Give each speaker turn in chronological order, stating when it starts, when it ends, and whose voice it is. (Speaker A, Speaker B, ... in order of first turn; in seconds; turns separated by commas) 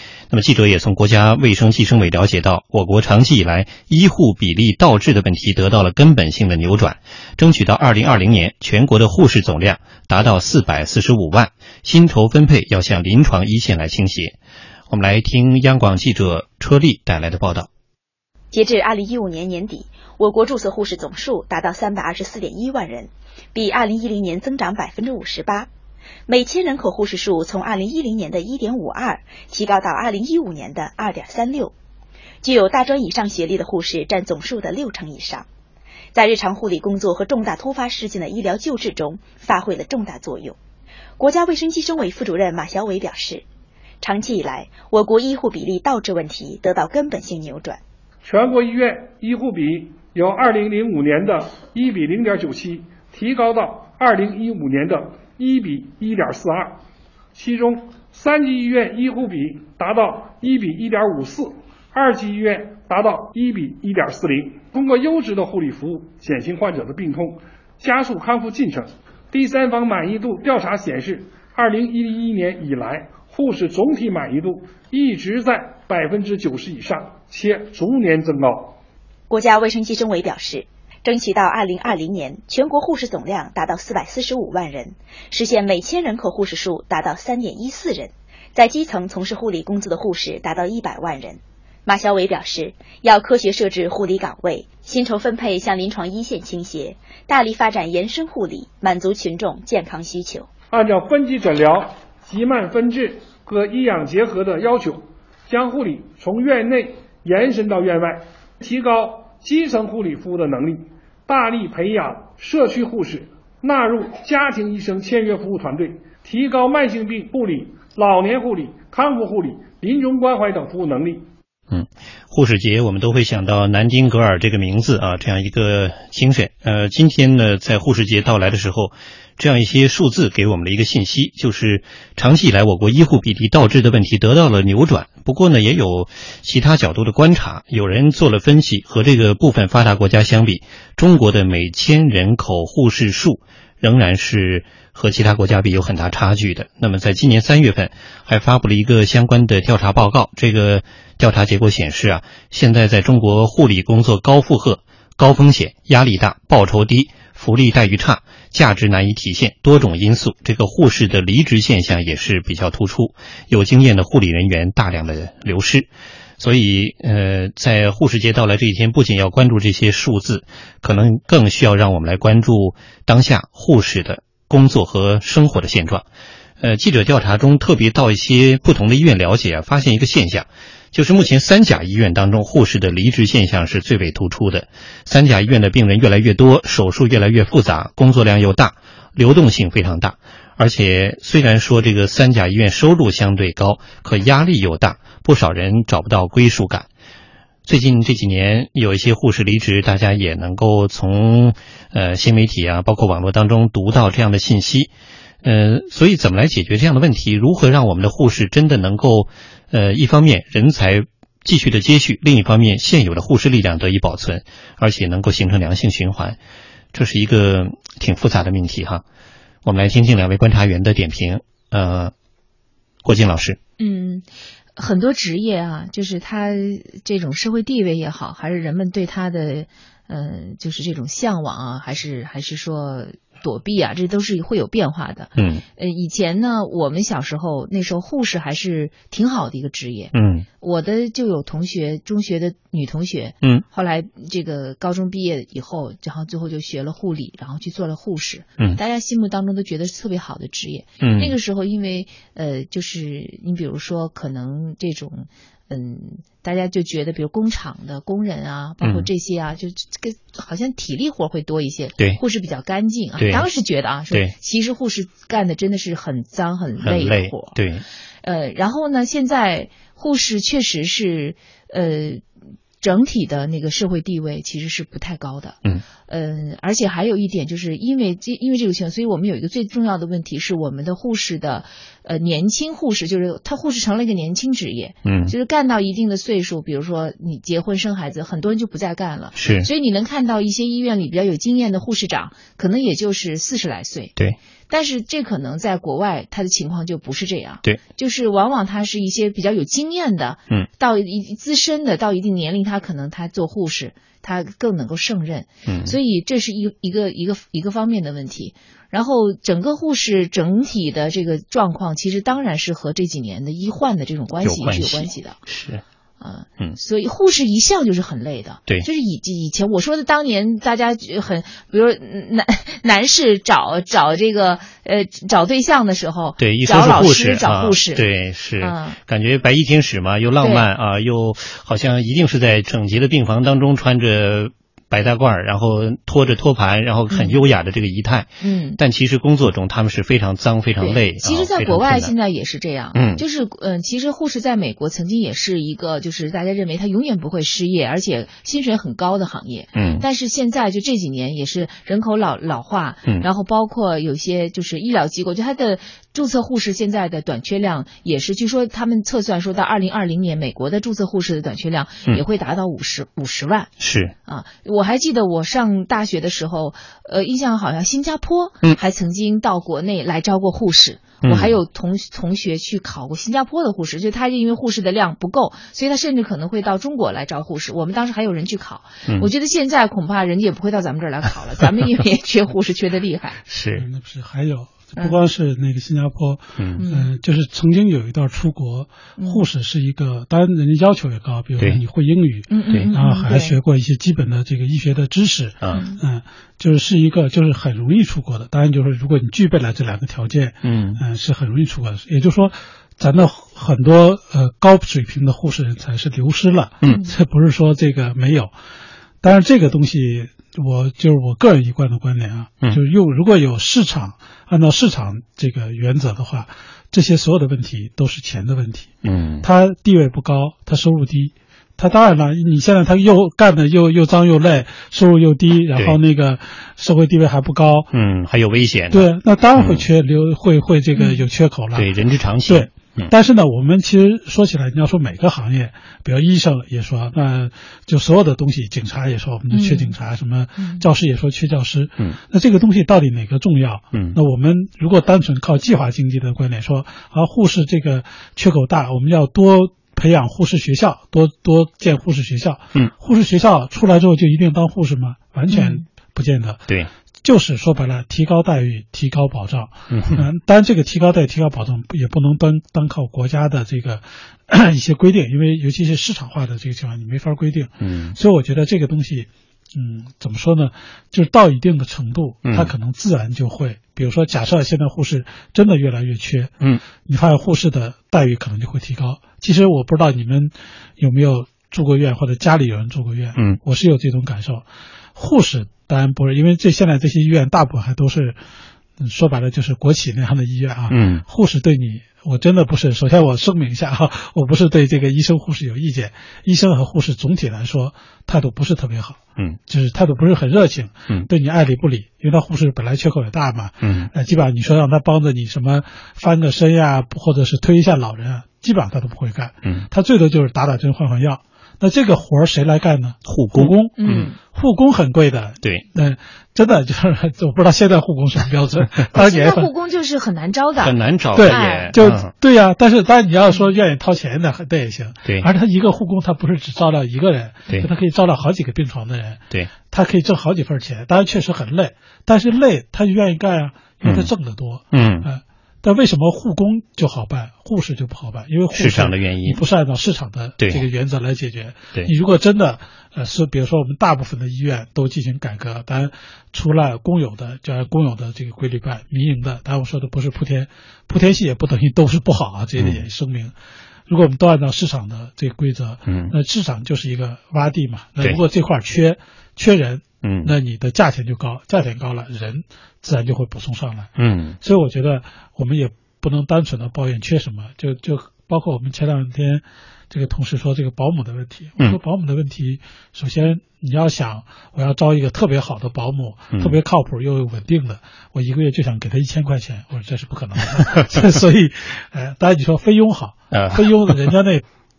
Speaker A: 0.3-14.4, Speaker A: 14.9-17.7, Speaker B: 18.5-25.7, Speaker B: 26.3-31.7, Speaker B: 32.4-35.5, Speaker B: 36.1-40.6, Speaker B: 41.2-43.4, Speaker B: 44.0-47.8, Speaker C: 48.2-56.8, Speaker C: 57.4-78.8, Speaker B: 79.3-100.5, Speaker C: 100.7-121.2, Speaker A: 121.7-176.1, Speaker A: 176.6-196.9, Speaker A: 197.7-204.9, Speaker A: 205.4-216.4, Speaker A: 216.9-219.0, Speaker A: 219.7-222.1, Speaker A: 223.1-223.6, Speaker D: 223.8-224.3, Speaker D: 224.8-267.6, Speaker A: 235.4-235.6, Speaker A: 240.1-240.5, Speaker A: 251.0-251.3, Speaker A: 258.8-259.1, Speaker A: 263.2-263.5, Speaker A: 266.8-267.8, Speaker D: 268.2-272.2, Speaker D: 272.8-294.1, Speaker A: 285.1-285.3, Speaker A: 289.4-289.7, Speaker D: 294.7-315.4, Speaker A: 305.7-306.0, Speaker A: 314.4-315.8, Speaker D: 316.2-328.1, Speaker A: 326.4-342.1, Speaker D: 328.6-329.0, Speaker D: 330.4-330.7, Speaker D: 337.1-337.4, Speaker D: 338.4-338.8, Speaker D: 340.8-363.7, Speaker A: 342.9-343.2, Speaker A: 349.7-350.0, Speaker A: 363.8-364.1, Speaker D: 364.3-383.4, Speaker A: 371.2-371.6, Speaker A: 383.5-383.9, Speaker E: 383.8-408.5, Speaker D: 385.0-385.2, Speaker A: 386.6-386.9, Speaker D: 386.8-387.1, Speaker D: 389.2-389.5, Speaker D: 392.5-393.6, Speaker D: 395.7-396.0, Speaker A: 400.6-401.0, Speaker E: 409.2-418.9, Speaker A: 419.0-419.5, Speaker E: 419.4-427.9, Speaker A: 427.9-429.9, Speaker E: 428.9-431.9, Speaker D: 431.0-431.3, Speaker A: 431.8-433.1, Speaker E: 432.5-456.7, Speaker D: 439.5-439.9, Speaker D: 440.6-440.9, Speaker D: 455.5-455.8, Speaker E: 457.2-476.5, Speaker A: 459.9-460.2, Speaker A: 467.8-468.1, Speaker A: 472.4-472.7, Speaker E: 477.1-484.6, Speaker E: 485.2-488.4, Speaker E: 489.0-519.7, Speaker A: 490.9-491.2, Speaker A: 503.8-504.1, Speaker A: 513.3-514.3, Speaker D: 514.0-514.4, Speaker D: 519.1-521.9, Speaker A: 520.8-522.3, Speaker E: 521.4-553.5, Speaker A: 534.0-534.3, Speaker A: 534.9-535.3, Speaker A: 538.7-539.6, Speaker E: 554.1-584.6, Speaker A: 556.1-556.3, Speaker A: 560.2-560.5, Speaker A: 564.2-564.6, Speaker A: 583.5-584.2